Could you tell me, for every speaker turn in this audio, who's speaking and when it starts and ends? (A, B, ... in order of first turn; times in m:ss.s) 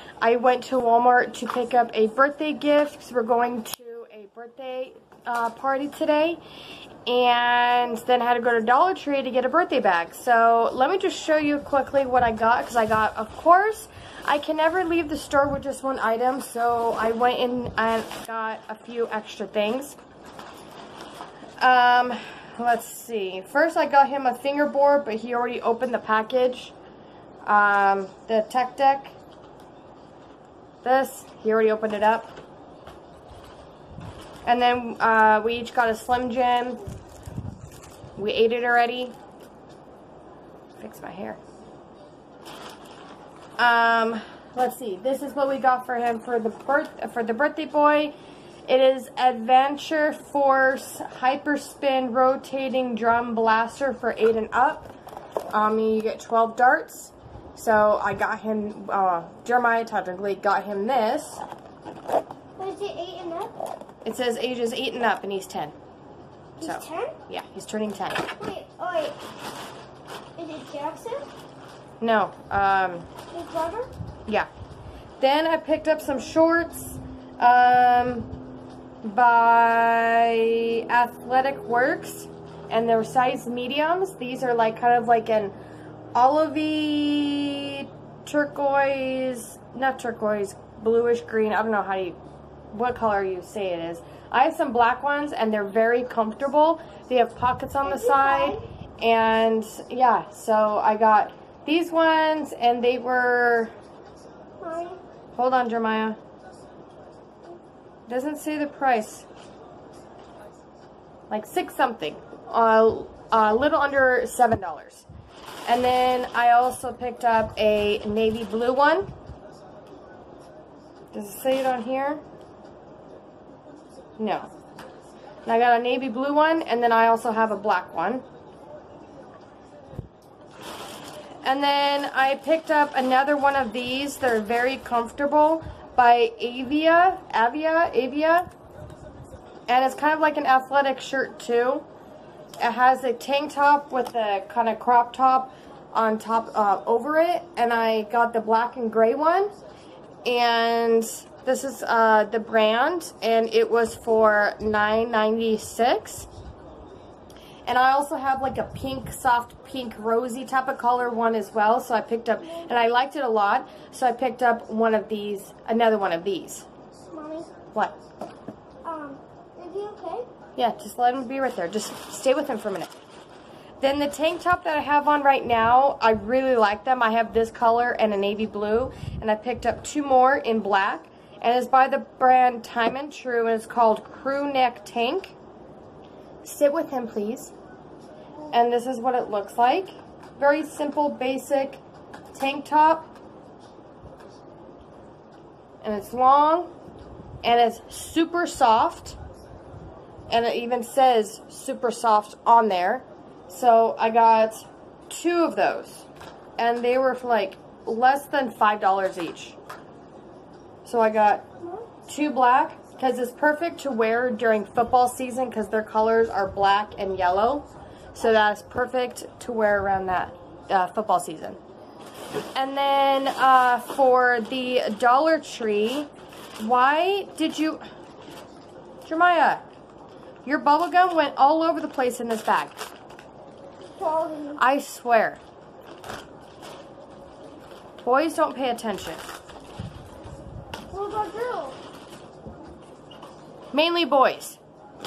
0:00.2-0:06.4 A
0:07.1-0:20.0 A
0:21.6-0:26.8 A
0:27.4-0:29.2 A
0:30.8-0:32.4 A
0:34.4-0:36.8 A
0:38.2-0:39.2 A
0:40.8-0:41.4 A
0:43.6-0:48.2 A
0:48.7-0:54.9 A
0:55.5-1:01.4 A
1:02.6-1:03.6 B
1:04.0-1:05.8 A
1:06.6-1:07.2 B
1:06.6-1:08.3 A
1:08.4-1:09.2 B
1:10.4-1:11.3 B
1:12.0-1:13.1 A
1:13.3-1:13.9 B
1:15.2-1:18.3 A
1:19.0-1:25.5 A
1:26.2-1:32.2 A
1:32.7-1:43.7 A
1:37.8-1:38.6 B
1:44.6-1:45.0 B
1:45.4-1:46.2 A
1:48.1-1:49.3 A
1:51.3-1:55.1 A
1:55.7-1:59.1 A
2:01.1-2:02.2 A
2:04.2-2:04.5 A
2:05.5-2:08.2 A
2:11.4-2:18.5 A
2:19.7-2:21.9 A
2:22.6-2:29.5 A
2:30.2-2:36.3 A
2:37.7-2:46.7 A
2:47.1-2:47.5 B
2:48.8-2:50.3 B
2:50.6-2:53.0 A
2:53.8-3:05.4 A
3:06.4-3:07.5 A
3:08.5-3:13.1 A
3:15.8-3:16.7 A
3:17.4-3:19.2 A
3:20.3-3:26.1 A
3:26.6-3:29.6 A
3:30.8-3:31.4 A
3:32.1-3:41.6 A
3:42.6-3:47.8 A
3:49.0-3:49.7 A
3:50.4-3:52.8 A
3:54.0-3:54.6 B
3:54.6-3:55.4 A
3:58.0-3:59.3 A
4:00.9-4:01.8 B
4:03.7-4:04.6 A